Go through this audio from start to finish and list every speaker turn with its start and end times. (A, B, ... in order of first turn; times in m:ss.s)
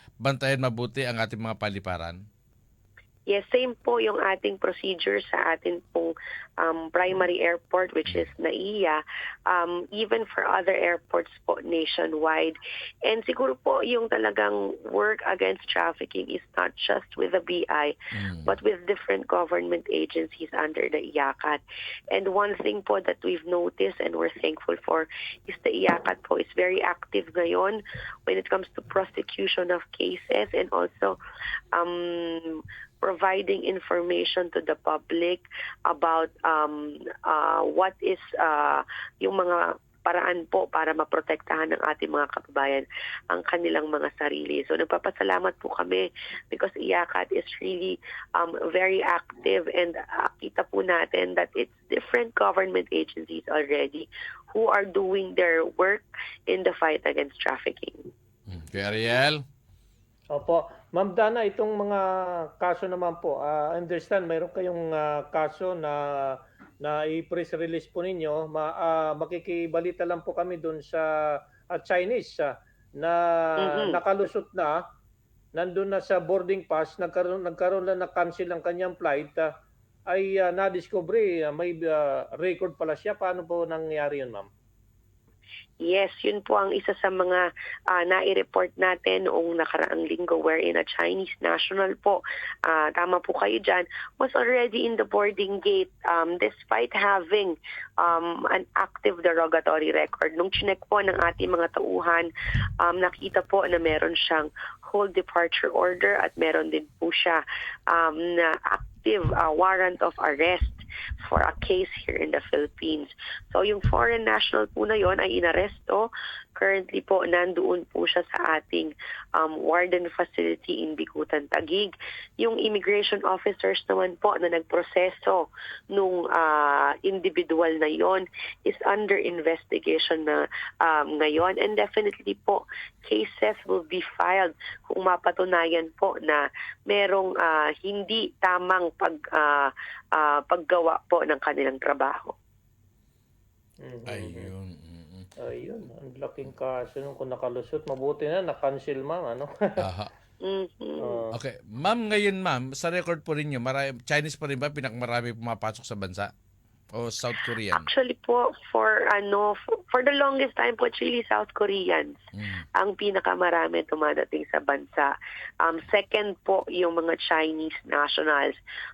0:00.2-0:02.2 A
0:03.3-0:17.9 B
0:18.1-0:18.5 A
0:18.4-0:21.6 B
0:22.1-0:31.2 B
0:31.7-0:58.0 B
0:58.5-0:59.4 A
1:00.3-1:06.3 C
1:06.8-1:11.1 C
1:11.8-1:14.8 C
1:13.6-1:14.0 B
1:15.5-1:19.5 C
1:20.1-1:24.5 C
1:25.8-1:42.3 B
1:42.8-2:22.3 B
2:23.8-2:24.5 C
2:24.1-2:25.3 A
2:25.4-2:29.5 C
2:29.8-2:30.1 A
2:30.4-2:31.2 B
2:31.0-2:31.3 C
2:31.4-2:36.3 A
2:36.9-2:37.9 A
2:37.7-2:42.2 B
2:42.3-2:42.6 A
2:42.8-2:48.5 B